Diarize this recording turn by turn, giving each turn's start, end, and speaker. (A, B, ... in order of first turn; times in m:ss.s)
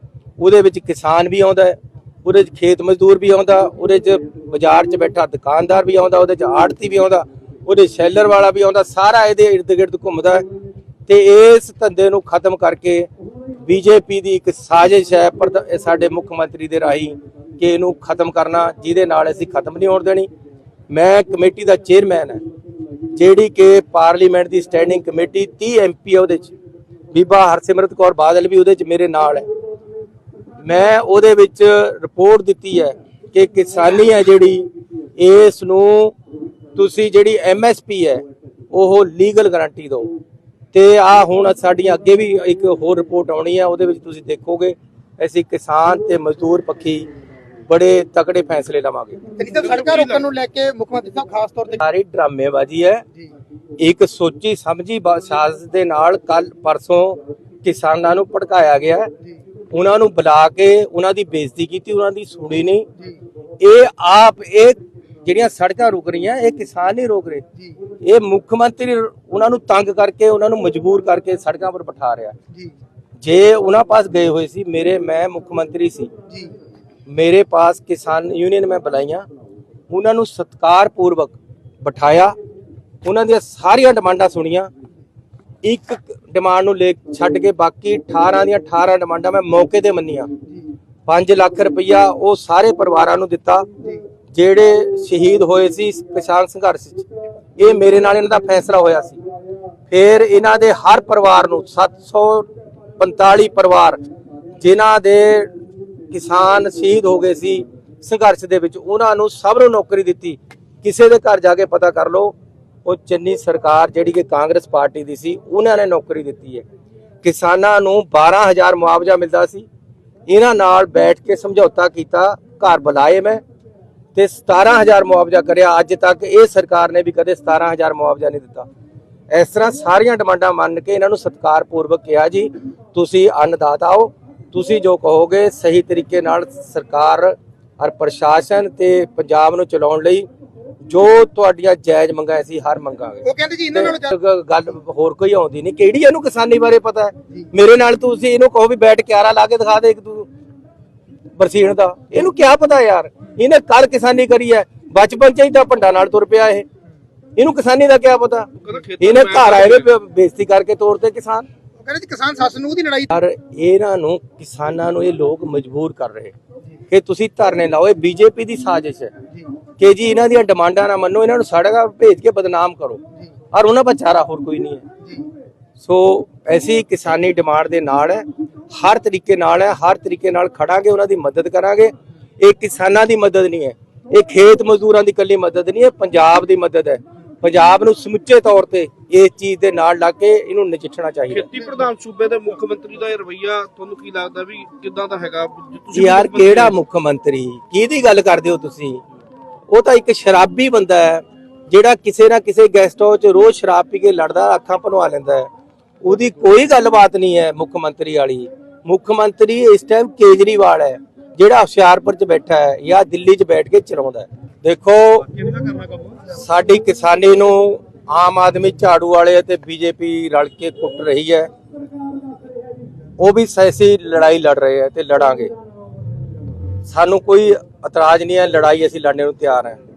0:00.4-0:10.4 A
0:11.1-0:13.1 A
0:13.6-0:20.3 A
0:20.9-0:22.4 A
0:23.1-0:26.5 A
0:27.1-0:29.5 A
0:30.6-0:36.1 A
0:36.8-0:40.1 A
0:40.7-0:47.1 A
0:47.7-0:49.2 A
0:49.4-0:51.8 B
0:49.6-0:50.2 C
0:51.8-0:53.0 A
0:53.8-0:59.1 A
0:59.7-1:02.9 A
1:03.6-1:07.4 A
1:08.0-1:12.4 A
1:13.2-1:16.1 A
1:17.1-1:19.2 A
1:19.9-1:22.3 A
1:23.0-1:24.7 A
1:25.6-1:30.3 A
1:31.1-1:33.7 A
1:34.3-1:39.2 A
1:39.9-1:44.0 A
1:44.6-1:45.5 A
1:46.1-1:56.6 A
1:57.2-1:59.7 A
2:00.3-2:03.4 A
2:04.1-2:08.7 A
2:09.3-2:20.3 A
2:20.9-2:30.3 A
2:23.2-2:24.1 B
2:31.4-2:36.6 A
2:37.4-2:41.5 A
2:38.6-2:39.9 C
2:41.8-2:43.1 B
2:43.1-2:46.3 A
2:46.9-2:49.1 A
2:49.8-2:53.0 A
2:53.5-2:54.8 A
2:55.8-3:11.5 A
3:11.3-3:16.8 C
3:15.9-3:19.0 A
3:19.7-3:25.5 A
3:26.0-3:35.3 A
3:36.2-3:41.5 A
3:43.2-3:45.5 A
3:46.8-3:49.8 A